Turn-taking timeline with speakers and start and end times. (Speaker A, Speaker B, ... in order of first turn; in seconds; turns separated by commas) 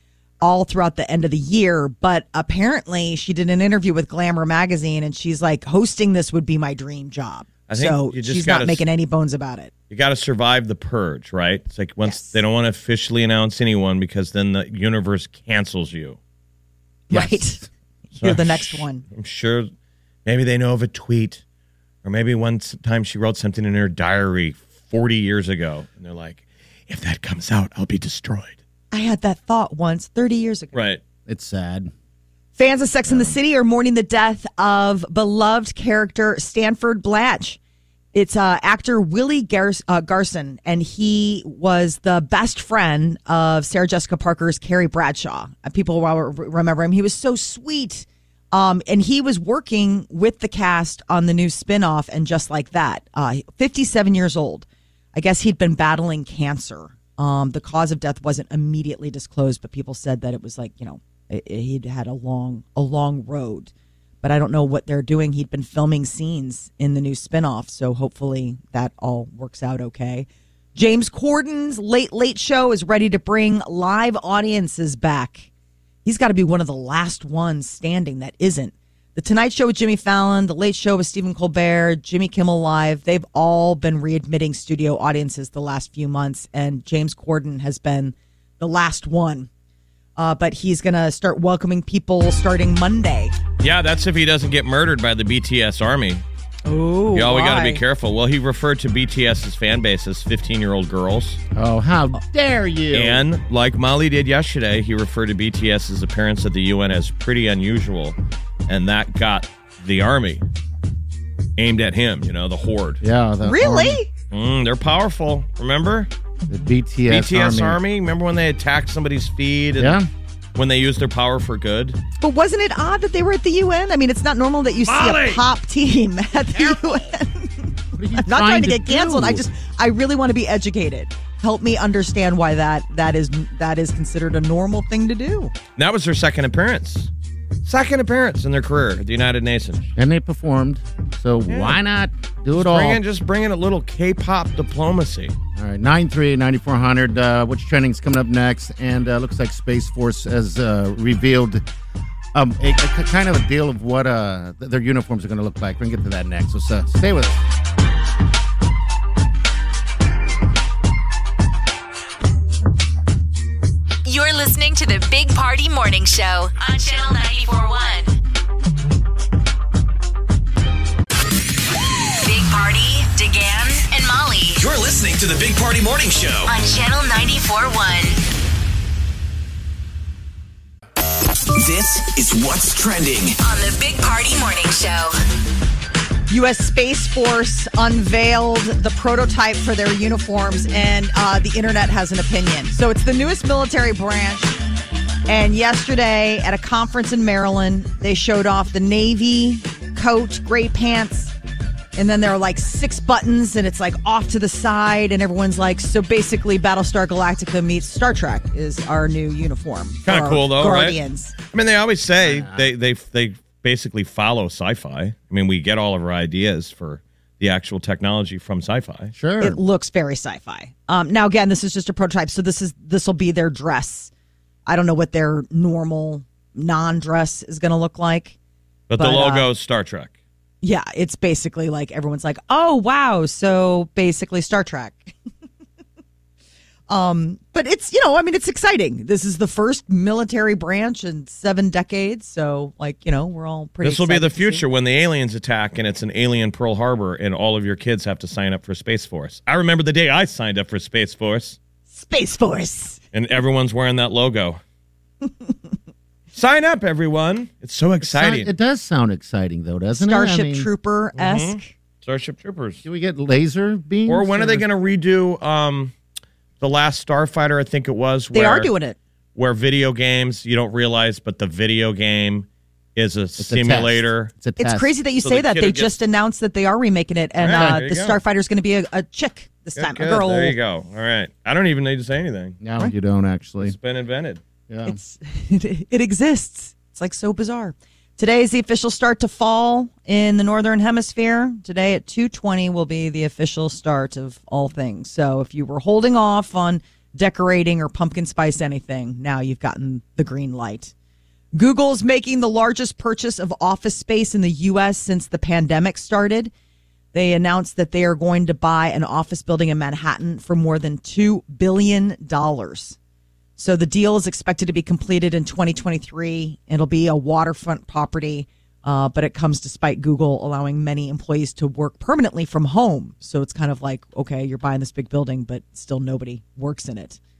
Speaker A: 0.4-9.7, Speaker B: 7.7-8.8, Speaker B: 9.9-16.2, Speaker A: 12.0-12.4, Speaker A: 17.1-17.6, Speaker C: 17.1-17.7, Speaker A: 18.1-19.0, Speaker B: 18.2-19.7, Speaker B: 20.2-21.4, Speaker B: 22.0-28.6, Speaker A: 28.9-30.7, Speaker B: 30.7-31.0, Speaker C: 31.3-31.9, Speaker A: 32.6-37.6, Speaker C: 33.1-33.4, Speaker A: 38.1-63.7, Speaker A: 64.2-75.5, Speaker A: 76.0-89.5, Speaker A: 90.2-93.3, Speaker B: 93.6-96.2, Speaker A: 96.7-97.8, Speaker B: 97.1-101.4, Speaker C: 101.5-103.2, Speaker B: 102.9-108.2, Speaker B: 108.7-110.4, Speaker B: 111.6-113.0, Speaker C: 113.0-114.0, Speaker A: 113.4-114.1, Speaker B: 114.3-116.1, Speaker C: 116.5-117.8, Speaker B: 117.1-120.0, Speaker C: 119.8-120.1, Speaker B: 120.5-122.0, Speaker A: 122.2-127.6, Speaker C: 124.9-125.4, Speaker C: 126.5-127.1, Speaker C: 127.9-129.4, Speaker A: 128.2-135.5, Speaker B: 135.8-137.1, Speaker B: 137.6-139.9, Speaker C: 139.9-143.0, Speaker B: 141.5-141.8, Speaker B: 142.5-145.3, Speaker C: 145.5-151.6, Speaker C: 152.3-157.4, Speaker D: 164.0-168.1, Speaker D: 172.2-174.6, Speaker E: 174.6-176.5, Speaker D: 176.4-178.2, Speaker E: 181.5-183.4, Speaker D: 183.4-185.1, Speaker A: 186.3-194.5, Speaker A: 195.3-201.3, Speaker A: 201.9-211.3, Speaker B: 210.0-211.0, Speaker B: 211.5-219.1, Speaker C: 212.2-212.7, Speaker C: 219.1-219.6, Speaker A: 219.4-224.1, Speaker A: 224.7-228.4, Speaker B: 228.9-230.1, Speaker A: 228.9-229.5, Speaker A: 230.6-235.1, Speaker A: 236.9-244.6, Speaker B: 243.8-251.6, Speaker A: 251.9-253.0, Speaker B: 253.1-254.6, Speaker B: 256.3-258.5, Speaker C: 258.0-260.7, Speaker A: 259.9-261.7, Speaker B: 261.1-262.8, Speaker C: 262.8-264.6, Speaker B: 264.1-265.9, Speaker B: 266.6-268.7, Speaker A: 268.3-269.0, Speaker B: 269.4-274.3, Speaker C: 273.4-274.9, Speaker A: 274.6-280.5, Speaker B: 275.2-276.0, Speaker B: 277.4-278.2, Speaker C: 277.5-277.8, Speaker B: 279.8-282.6, Speaker C: 282.6-283.8, Speaker B: 283.6-284.4, Speaker C: 284.7-285.0, Speaker A: 284.9-300.9, Speaker A: 301.5-306.5, Speaker A: 307.1-312.9, Speaker A: 313.6-327.2